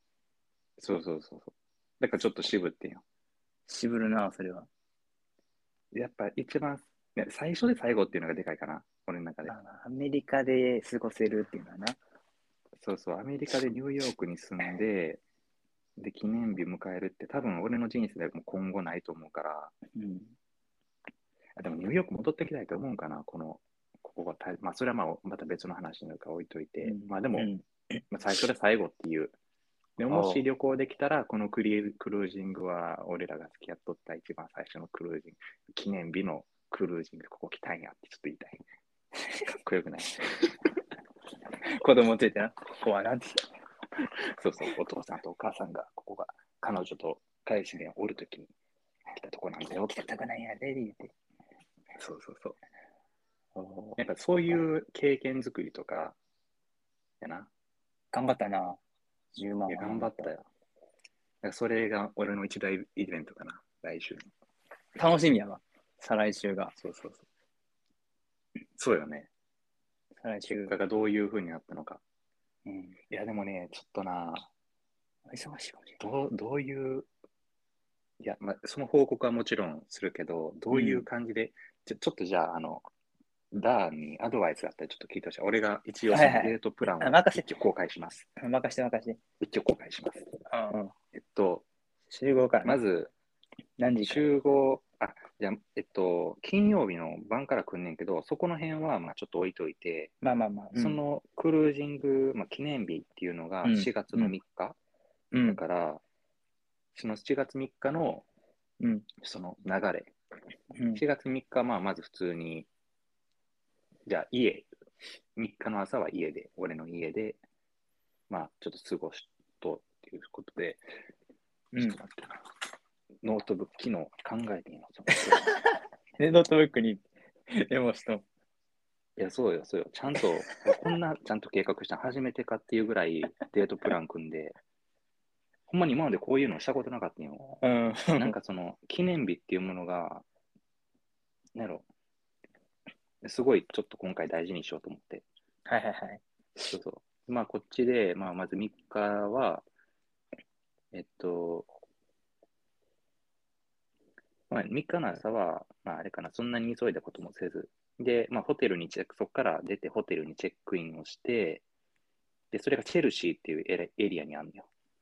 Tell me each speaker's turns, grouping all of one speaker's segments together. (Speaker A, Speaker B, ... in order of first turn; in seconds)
Speaker A: 0.8-3.0, 5.9-9.5, 12.8-15.2, 16.0-19.7, 21.6-27.5, 28.1-29.3, 30.0-38.6, 39.5-40.6, 44.0-48.5, 49.1-49.9, 54.0-56.1, 57.2-57.5, 59.7-60.5, 61.4-64.3, 66.8-67.2, 68.8-69.3, 70.5-72.0, 73.1-74.5, 76.0-77.1, 78.2-82.8, 83.5-88.3, 89.4-90.3, 91.1-91.6, 92.6-93.1, 94.0-100.1, 100.7-104.8, 105.5-106.0, 106.9-108.2, 109.2-110.1, 110.9-112.7, 114.1-114.7, 115.3-117.4, 118.3-120.8, 121.8-122.4, 123.2-125.5, 129.2-134.6, 135.7-137.5, 138.2-140.2, 141.5-141.8, 143.2-145.2, 146.7-149.6, 150.9-151.7, 154.5-161.6, 162.5-164.7
Speaker B: 3.7-4.7, 9.4-12.0, 19.9-20.3, 26.8-27.6, 30.1-30.4, 41.6-43.5, 49.7-51.1, 52.0-52.5, 53.5-53.9, 58.1-58.8, 59.3-60.3, 65.0-66.7, 70.2-70.7, 72.7-73.0, 75.3-76.0, 80.7-81.0, 86.1-87.5, 88.4-89.2, 90.5-90.9, 92.1-92.8, 93.8-94.3, 100.2-101.0, 103.6-104.3, 105.3-105.6, 108.8-109.1, 110.7-111.0, 121.7-122.0, 125.2-128.2, 137.6-138.3, 145.7-146.7